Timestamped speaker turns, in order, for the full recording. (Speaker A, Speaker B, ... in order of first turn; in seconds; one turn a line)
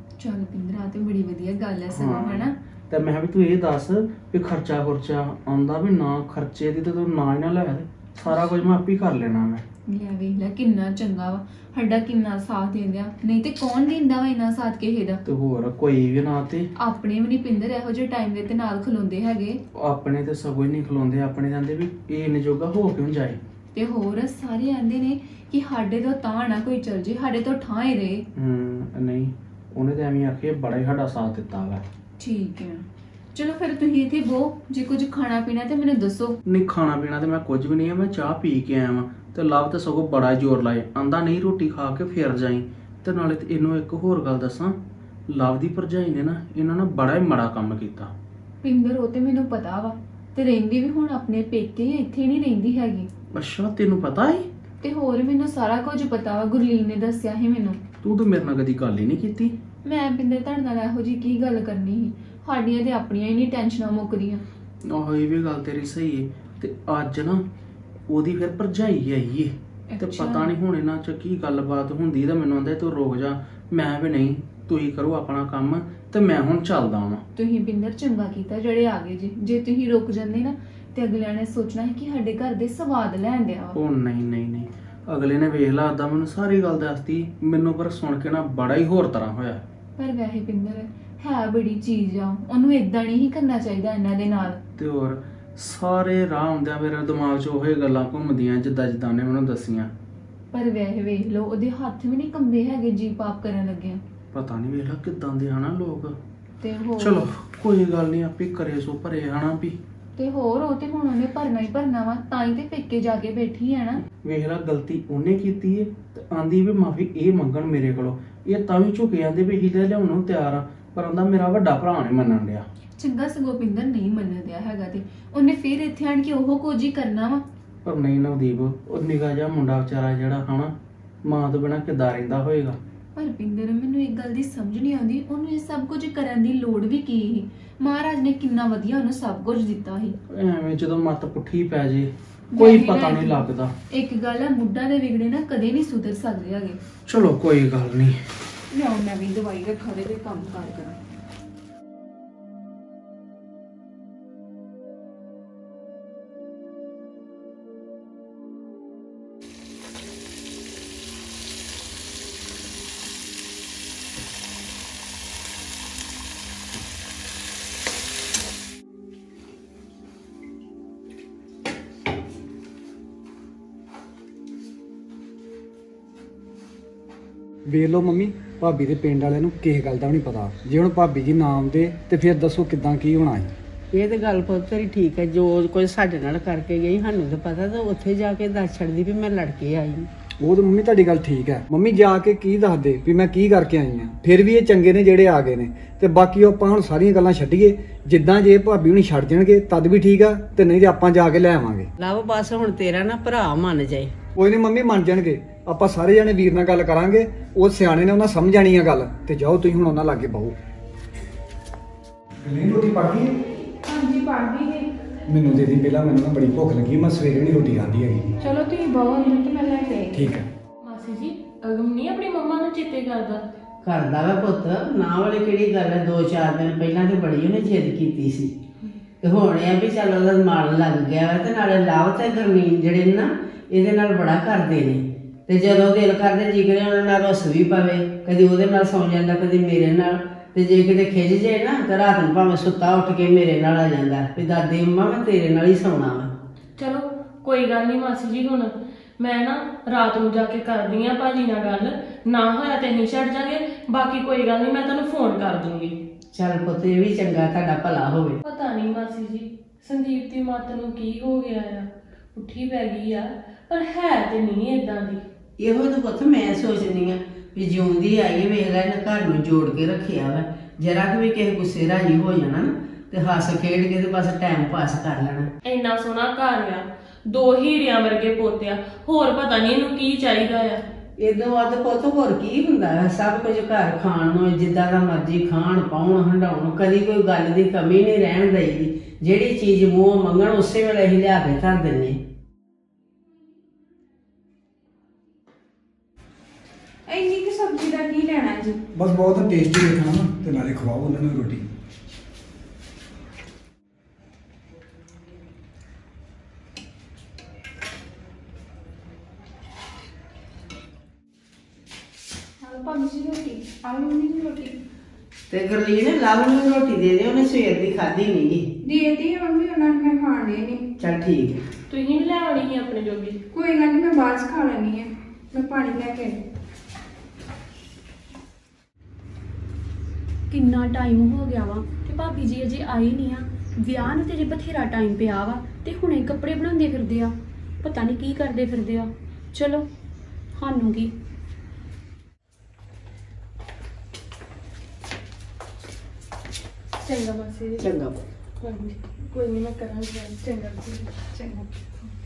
Speaker A: 0.2-2.5
Speaker B: 1.9-9.6
Speaker A: 9.9-15.2
Speaker B: 15.3-16.7
Speaker A: 16.8-19.6
Speaker B: 19.8-23.4
Speaker A: 23.7-28.2
Speaker B: 28.4-31.9
Speaker A: 32.2-36.4
Speaker B: 36.5-44.8
Speaker B: 45.3-48.1
Speaker A: 48.6-53.1
Speaker B: 53.4-54.5
Speaker A: 54.8-57.8
Speaker B: 58.0-59.5
Speaker A: 59.9-64.4
Speaker B: 64.9-67.4
Speaker B: 68.1-77.2
Speaker A: 69.9-70.5
Speaker A: 77.4-83.8
Speaker B: 83.8-89.6
Speaker A: 90.0-94.6
Speaker B: 94.8-99.9
Speaker A: 100.5-104.0
Speaker B: 104.3-106.2
Speaker A: 106.6-107.3
Speaker B: 107.0-109.8
Speaker A: 110.2-114.0
Speaker B: 114.2-122.7
Speaker A: 123.0-127.4
Speaker B: 127.8-130.7
Speaker B: 131.2-132.8
Speaker A: 133.2-140.2
Speaker B: 140.3-143.7
Speaker A: 142.5-143.4
Speaker A: 143.9-146.8
Speaker B: 147.1-148.2
Speaker C: 148.8-149.8
Speaker A: 149.4-150.9
Speaker D: 177.7-183.5
Speaker E: 183.9-190.1
Speaker D: 190.4-201.9
Speaker E: 202.0-204.1
Speaker D: 204.4-210.6
Speaker D: 212.4-213.3
Speaker C: 213.8-214.9
Speaker D: 215.3-218.3
Speaker C: 218.4-220.1
Speaker D: 220.1-220.5
Speaker F: 220.8-223.4
Speaker E: 223.8-228.5
Speaker E: 229.2-246.3
Speaker F: 246.8-256.0
Speaker E: 256.3-258.4
Speaker F: 258.4-265.2
Speaker E: 265.6-275.5
Speaker F: 275.7-280.8
Speaker E: 281.2-292.2
Speaker C: 297.1-298.8
Speaker D: 298.9-301.7
Speaker C: 312.6-314.8
Speaker E: 315.5-318.6
Speaker C: 318.8-320.9
Speaker E: 321.0-321.6
Speaker F: 321.9-323.4
Speaker C: 323.5-326.4
Speaker G: 330.5-339.9
Speaker G: 340.6-341.1
Speaker F: 347.0-347.8
Speaker E: 347.8-348.2
Speaker F: 348.6-351.1
Speaker C: 351.2-351.7